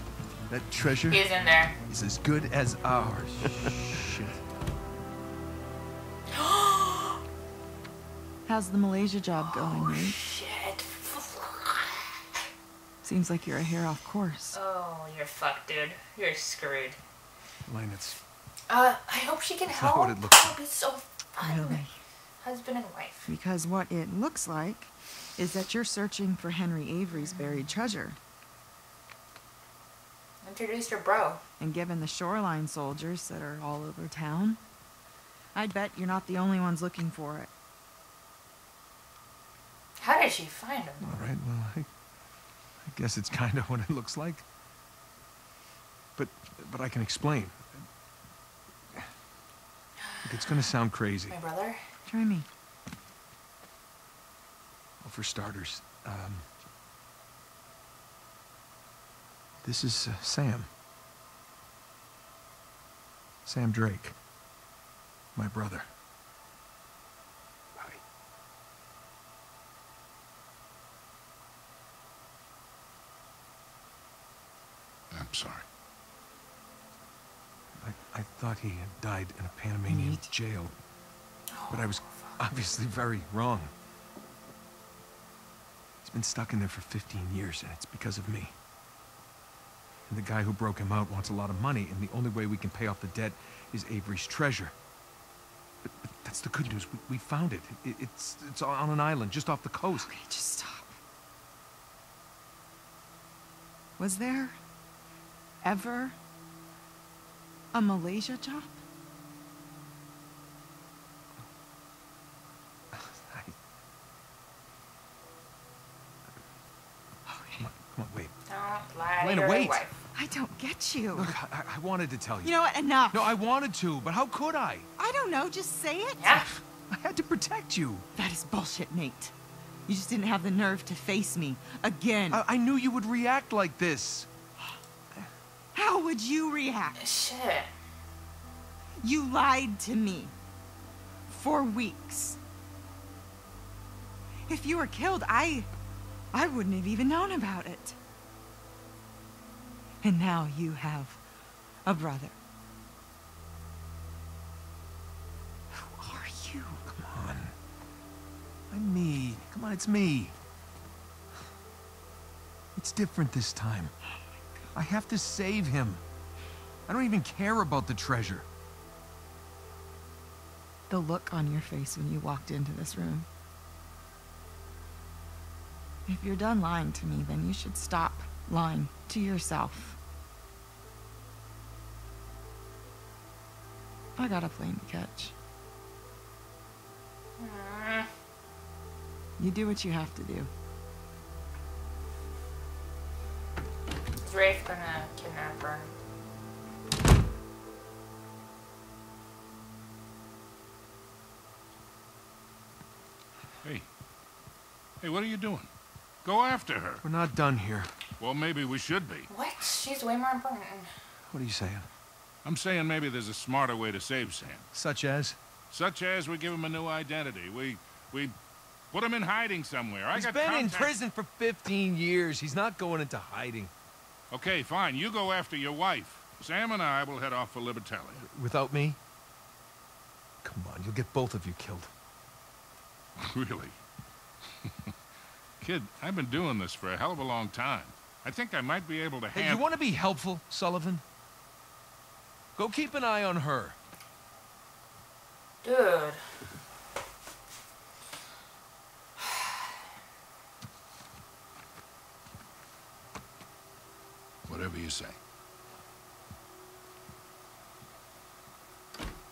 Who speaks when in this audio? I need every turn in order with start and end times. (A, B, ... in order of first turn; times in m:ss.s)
0:00.5-0:01.2 A
0:01.1-0:01.8 B
0:01.9-0:04.3 A
0:06.3-0:07.2 B
0:08.5-0:10.2 C
0:09.4-0:12.2 B
0:13.0-0:14.6 C
0:14.5-0:17.0 B
0:17.7-0:18.2 A
0:18.7-0:21.8 B
0:19.7-0:20.6 A
0:21.4-0:22.0 C
0:22.4-0:23.3 B
0:23.3-0:28.2 C
0:27.1-0:27.8 B
0:30.4-0:31.4 B
0:31.6-0:34.6 C
0:35.5-0:37.5 C
0:40.0-0:41.2 B
0:41.0-0:41.9 A
0:42.8-0:44.4 A
0:46.2-0:47.9 A
0:50.2-0:51.4 A
0:51.3-0:51.8 B
0:52.1-0:52.5 C
0:55.0-0:56.5 A
0:59.6-1:00.7 A
1:03.4-1:04.2 A
1:05.4-1:05.9 A
1:15.1-1:15.6 D
1:17.8-1:20.8 A
1:19.9-1:20.3 C
1:21.5-1:22.4 B
1:21.7-1:23.7 A
1:26.0-1:28.5 A
1:30.1-1:34.7 A
1:35.8-1:40.1 A
1:39.9-1:41.0 C
1:44.0-1:44.6 C
1:45.6-1:46.2 C
1:47.7-1:48.8 C
1:52.9-1:53.6 A
1:57.3-1:57.7 C
1:57.6-1:58.3 A
1:58.5-2:00.0 B
1:59.2-1:59.8 A
2:00.2-2:01.3 C
2:01.2-2:02.6 A
2:02.4-2:03.4 C
2:03.1-2:04.9 A
2:05.0-2:06.5 C
2:06.2-2:06.5 B
2:06.5-2:08.1 A
2:08.2-2:09.3 C
2:09.9-2:12.4 C
2:12.3-2:14.3 A
2:15.7-2:17.0 C
2:17.0-2:17.7 B
2:19.0-2:20.3 C
2:21.3-2:22.4 C
2:24.5-2:25.7 C
2:26.3-2:28.0 C
2:30.0-2:31.2 C
2:31.8-2:32.4 C
2:35.7-2:36.8 C
2:36.9-2:37.6 A
2:38.7-2:40.4 A
2:42.8-2:43.9 A
2:44.7-2:46.0 A
2:46.9-2:48.5 A
2:50.9-2:53.3 C
2:56.1-3:00.0 C
3:04.2-3:05.3 C
3:07.4-3:08.1 B
3:09.4-3:10.5 C
3:14.2-3:15.9 B
3:25.0-3:25.7 D
3:26.2-3:27.0 D
3:27.0-3:27.9 A
3:28.2-3:29.3 D
3:29.3-3:30.9 B
3:31.3-3:31.9 A
3:32.4-3:34.6 D
3:34.7-3:35.4 A
3:35.7-3:38.3 D
3:38.9-3:40.9 D
3:40.1-3:43.7 A
3:44.3-3:48.3 D
3:48.2-3:49.0 A
3:50.4-3:51.9 A
3:53.2-3:53.8 D
3:55.6-3:59.7 D
3:59.3-4:01.0 A
4:02.6-4:03.8 A
4:05.6-4:06.2 B
4:14.5-4:15.2 D